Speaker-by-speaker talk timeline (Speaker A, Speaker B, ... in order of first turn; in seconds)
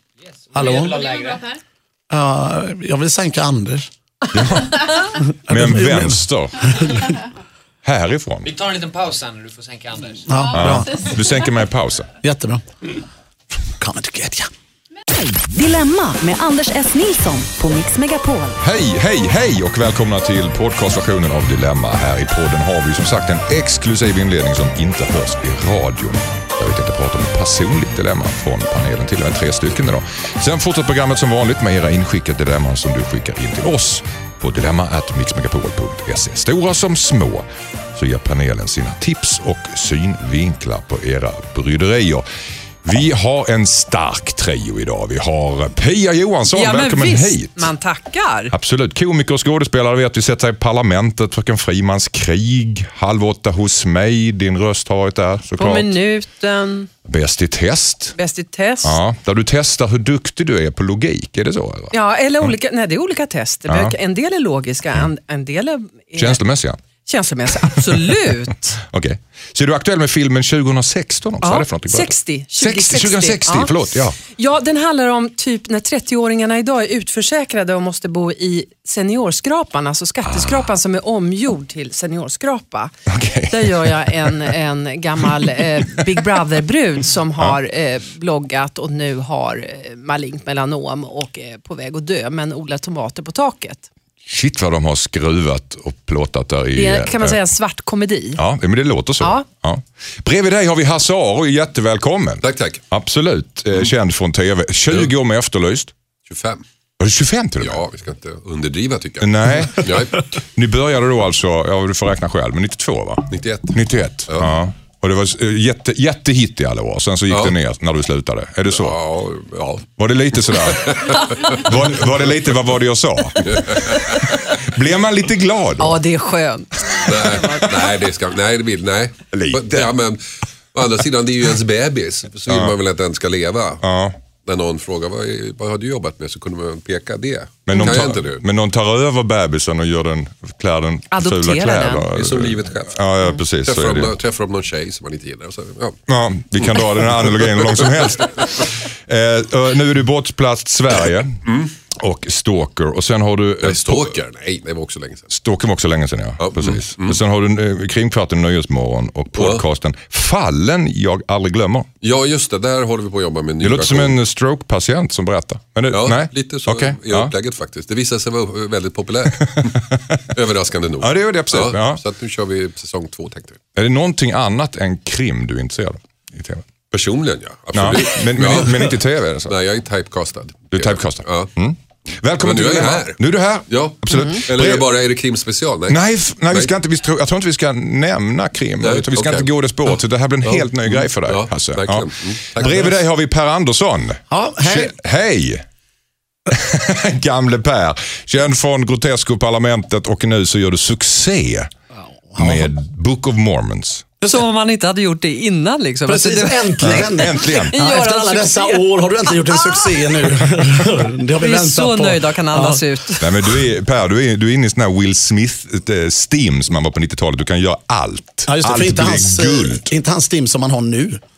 Speaker A: 0.3-1.6, 8.4-10.4
Speaker B: 0.5-1.0, 2.1-3.9, 5.5-6.2, 6.7-7.1, 10.2-10.9, 12.2-12.6, 13.8-14.5, 194.3-194.9, 201.9-202.7, 206.1-212.8, 218.4-221.2
Speaker C: 4.3-4.9, 5.5-6.7, 7.8-8.5, 10.5-12.1, 18.6-42.2, 42.8-47.7, 48.5-56.0, 57.0-58.1, 58.8-62.5, 63.7-64.0, 66.2-66.8, 68.9-74.2, 80.2-80.7, 83.1-84.3, 94.2-97.4, 98.3-105.9, 107.0-107.8, 109.2-119.0, 120.0-126.0, 129.3-129.9, 132.5-132.7, 133.8-134.2, 137.7-144.1, 146.1-154.1, 155.3-161.9, 163.6-167.3, 169.4-170.2, 171.0-172.0, 173.7-176.6, 177.7-179.5, 180.7-184.9, 185.9-195.6, 196.5-201.7, 202.4-204.1, 206.8-207.7, 213.2-219.9
Speaker D: 15.3-18.6
Speaker E: 46.5-48.5, 55.6-56.9, 58.1-59.0, 61.9-66.4, 67.0-68.8, 71.4-73.7, 74.3-82.9, 83.5-93.8, 96.8-98.4, 125.8-127.7, 141.1-142.1, 204.2-210.1, 211.4-213.3
Speaker F: 102.4-102.8, 106.3-106.6, 107.6-110.2, 113.3-114.5, 117.3-117.5, 118.7-119.9, 120.5-121.7, 123.4-124.4, 127.0-130.2, 130.7-133.8, 134.4-138.4, 142.1-143.0, 143.6-146.0, 146.6-148.2, 151.4-151.7, 153.6-155.3, 156.4-157.2, 159.3-159.6, 162.0-164.2, 165.9-169.8, 170.3-173.6, 176.9-181.5, 182.4-186.7, 188.8-192.9